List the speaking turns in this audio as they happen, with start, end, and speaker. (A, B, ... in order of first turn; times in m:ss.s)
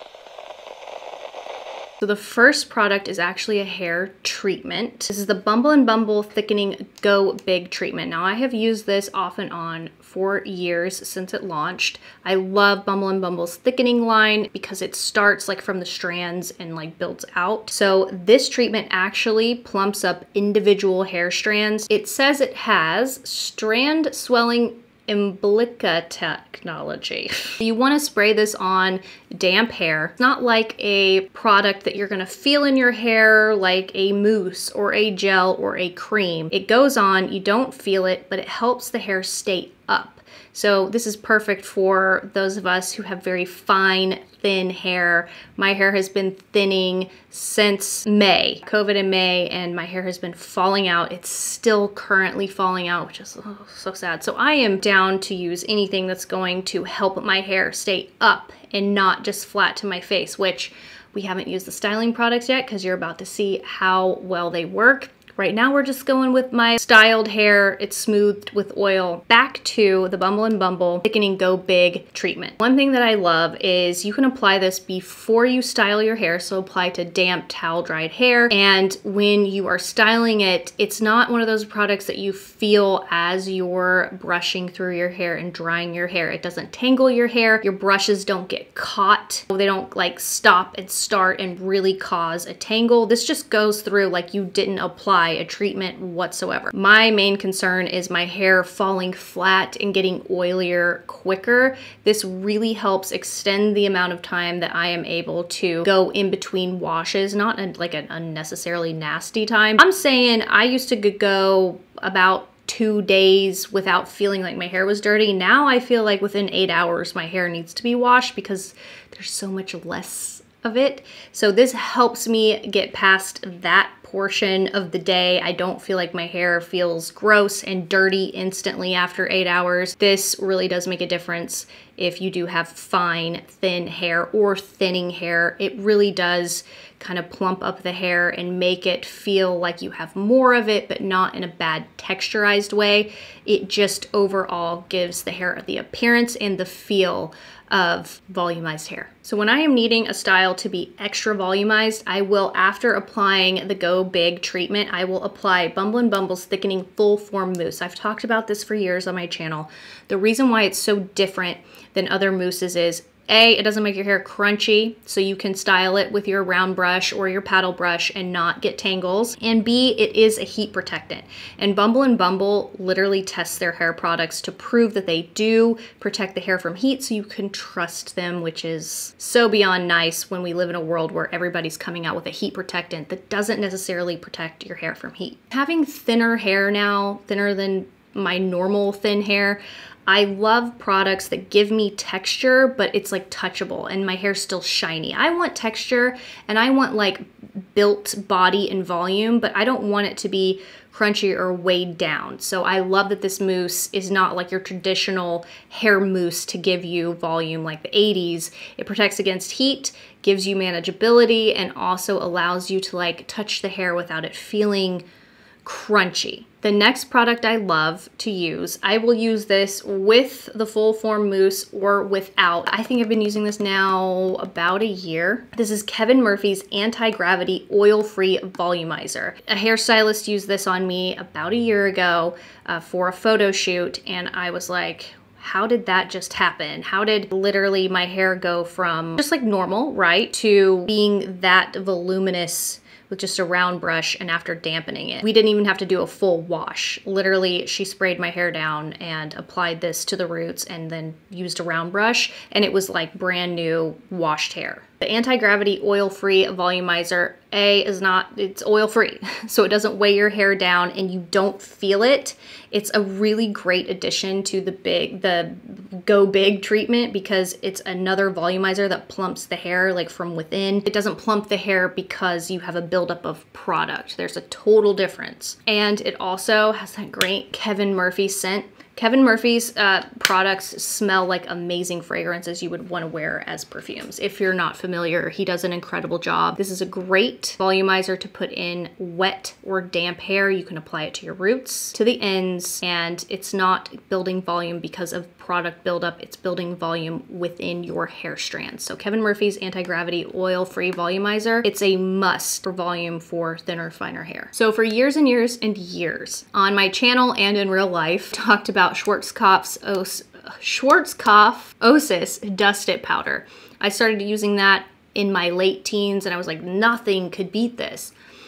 0:02.0-3:35.0 A
3:35.6-5:18.1 A